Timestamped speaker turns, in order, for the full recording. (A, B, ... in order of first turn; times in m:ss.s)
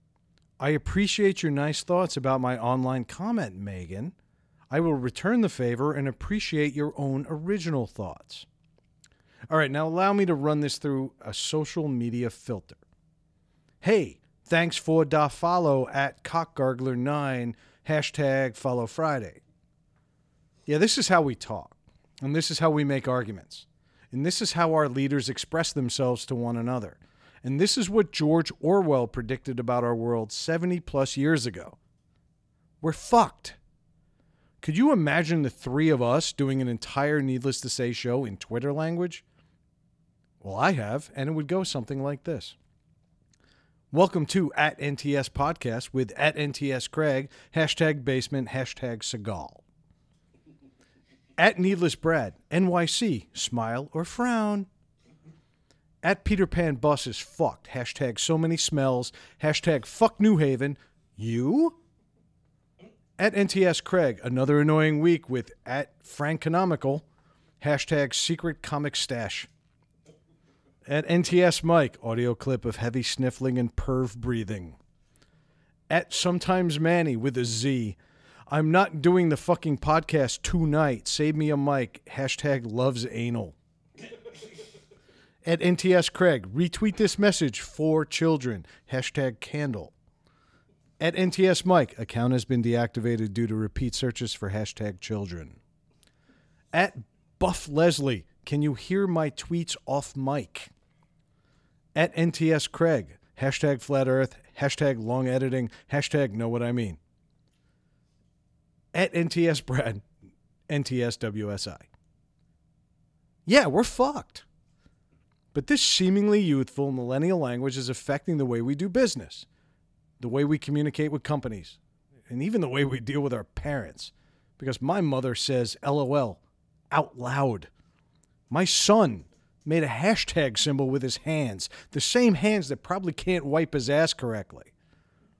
0:00.6-0:04.1 A
0:04.7-0:08.5 A
0:09.5-0:12.8 A
0:13.8-0:19.4 A
0:20.7-0:31.8 A
0:32.8-0:33.6 A
0:34.6-0:39.2 A
0:40.4-0:42.6 A
0:43.9-0:49.6 A
0:51.4-0:54.7 A
0:56.0-1:01.8 A
1:03.2-1:07.0 A
1:07.6-1:09.5 A
1:10.8-1:14.8 A
1:15.9-1:18.0 A
1:18.5-1:23.6 A
1:25.4-1:29.9 A
1:31.0-1:35.6 A
1:36.7-1:40.7 A
1:42.0-1:47.0 A
1:48.9-1:50.0 A
1:50.7-1:51.9 A
1:53.5-1:54.4 A
1:55.5-1:59.5 A
2:00.2-2:07.7 A
2:08.5-2:14.7 A